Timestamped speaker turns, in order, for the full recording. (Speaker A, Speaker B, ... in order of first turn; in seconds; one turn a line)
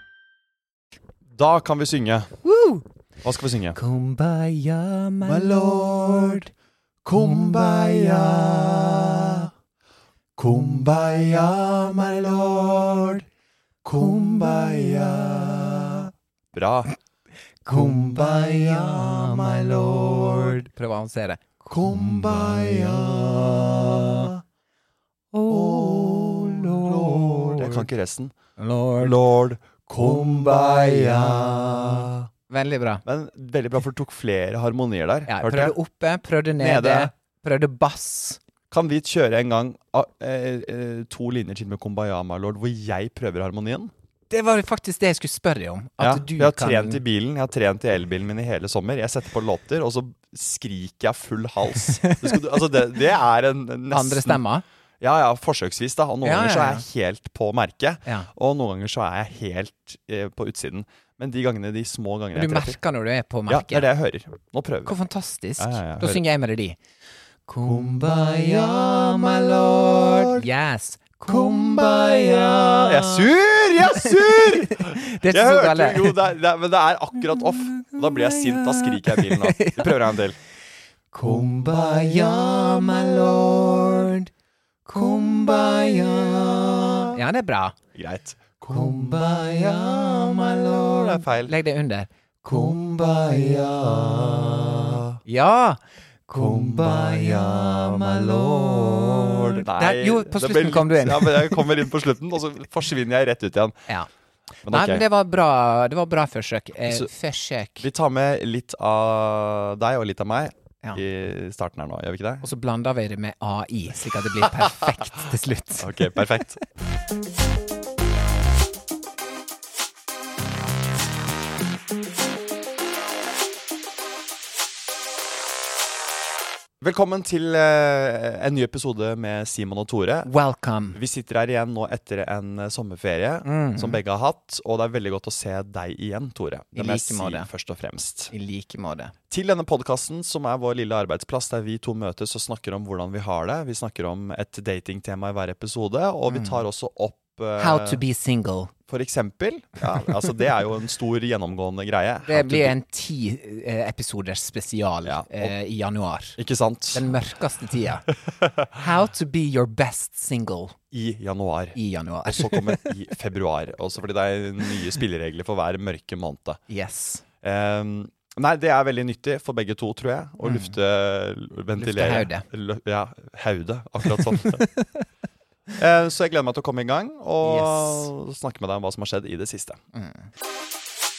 Speaker A: 1.3-2.4
Speaker B: 2.4-2.8
Speaker A: 3.2-3.8
Speaker B: 3.7-6.1
Speaker A: 5.2-6.5
Speaker A: 7.0-9.5
Speaker A: 10.3-13.2
Speaker A: 13.8-16.9
Speaker A: 17.6-20.7
Speaker B: 17.7-19.6
Speaker B: 20.6-24.3
Speaker A: 21.7-24.4
Speaker B: 25.3-27.9
Speaker A: 25.5-28.3
Speaker B: 28.6-29.2
Speaker A: 29.0-32.3
Speaker B: 30.1-31.6
Speaker B: 32.5-33.0
Speaker A: 33.0-35.8
Speaker B: 35.3-38.4
Speaker A: 36.6-37.1
Speaker A: 38.7-43.9
Speaker B: 44.3-47.0
Speaker A: 46.0-54.4
Speaker B: 51.9-52.9
Speaker B: 53.9-54.6
Speaker A: 55.0-62.8
Speaker B: 56.2-56.9
Speaker B: 58.0-58.3
Speaker B: 62.3-63.9
Speaker A: 63.5-65.0
Speaker B: 64.8-66.8
Speaker A: 65.6-66.2
Speaker B: 67.5-69.0
Speaker A: 67.6-70.4
Speaker B: 70.0-73.3
Speaker A: 71.3-80.4
Speaker B: 73.8-76.2
Speaker B: 77.3-80.1
Speaker B: 81.1-84.3
Speaker A: 81.2-84.1
Speaker B: 84.8-87.8
Speaker A: 85.0-87.2
Speaker A: 87.9-91.5
Speaker B: 88.7-92.7
Speaker A: 92.4-95.2
Speaker B: 95.2-101.8
Speaker A: 96.3-103.9
Speaker A: 104.6-105.0
Speaker B: 104.7-107.8
Speaker A: 106.8-107.1
Speaker A: 107.8-112.5
Speaker B: 112.4-116.4
Speaker A: 115.8-116.6
Speaker A: 126.8-130.3
Speaker B: 130.2-131.0
Speaker A: 130.9-138.3
Speaker B: 133.4-134.0
Speaker B: 136.7-137.5
Speaker B: 138.3-139.1
Speaker A: 139.3-148.0
Speaker B: 146.3-146.6
Speaker B: 147.6-148.7
Speaker A: 148.9-152.8
Speaker B: 152.2-156.4
Speaker A: 155.0-155.5
Speaker A: 156.4-157.1
Speaker B: 156.9-158.1
Speaker A: 158.3-158.7
Speaker B: 158.7-160.8
Speaker A: 160.9-166.6
Speaker B: 161.7-162.9
Speaker B: 166.7-167.2
Speaker A: 167.4-174.7
Speaker B: 170.4-170.7
Speaker B: 171.8-172.4
Speaker B: 174.2-175.0
Speaker A: 175.7-179.8
Speaker B: 177.4-178.1
Speaker B: 179.9-180.3